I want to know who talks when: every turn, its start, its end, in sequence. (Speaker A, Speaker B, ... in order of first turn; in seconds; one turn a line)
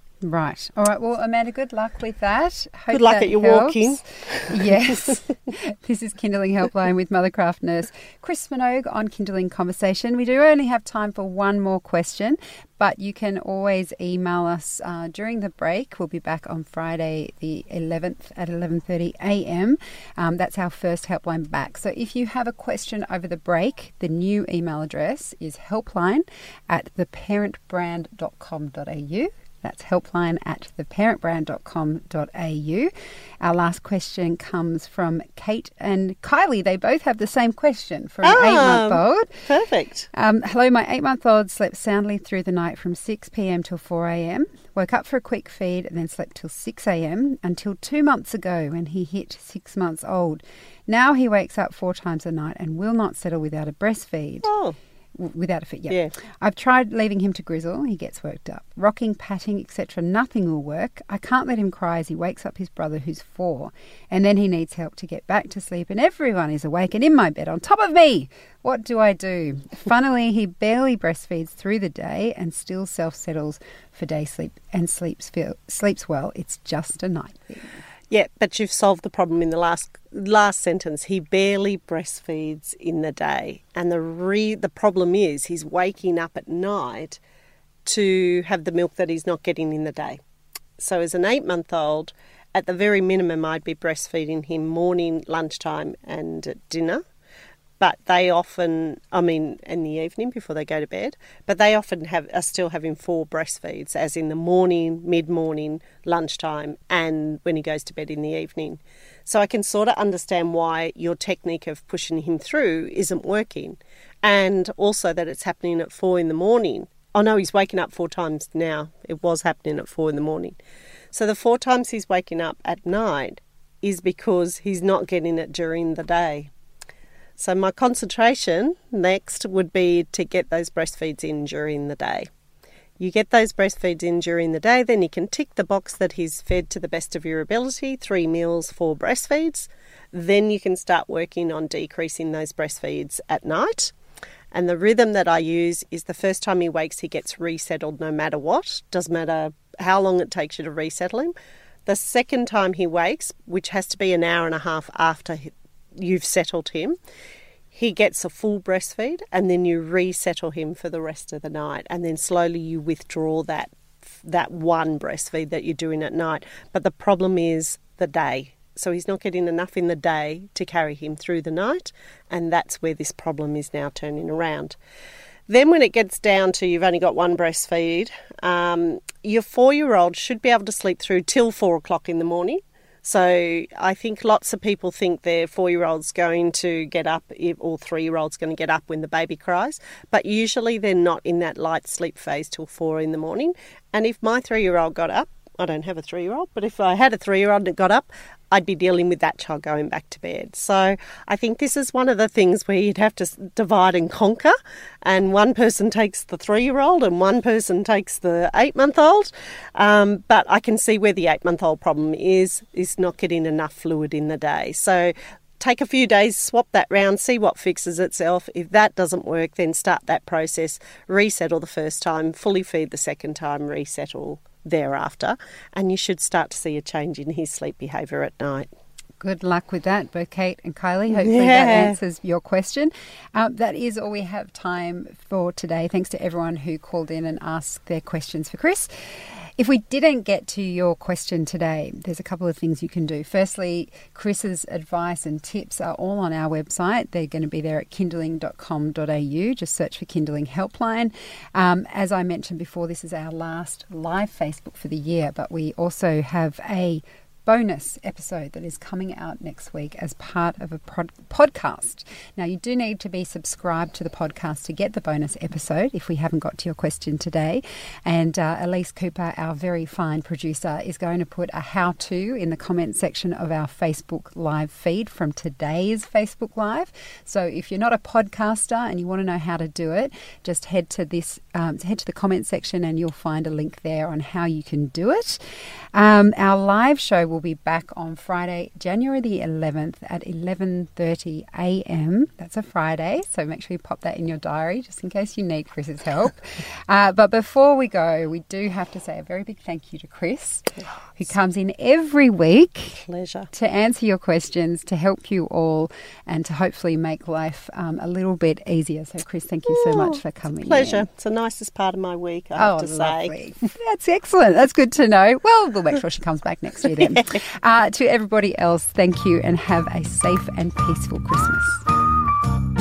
Speaker A: 0.2-39.3
Speaker B: 2.9-4.7
Speaker B: 38.2-40.1
Speaker A: 40.1-54.5
Speaker B: 54.4-54.8
Speaker A: 55.1-77.8
Speaker B: 78.1-87.2
Speaker B: 87.8-90.2
Speaker B: 90.8-97.0
Speaker B: 97.8-120.6
Speaker B: 121.1-126.5
Speaker B: 127.4-132.3
Speaker B: 133.0-143.9
Speaker B: 144.5-151.3
Speaker B: 151.8-157.0
Speaker B: 157.7-174.8
Speaker B: 175.5-228.7
Speaker A: 229.2-238.9
Speaker B: 231.1-232.0
Speaker A: 239.6-285.4
Speaker A: 285.9-311.1
Speaker B: 303.0-303.5
Speaker B: 309.7-313.3
Speaker A: 312.6-321.8
Speaker B: 317.0-317.2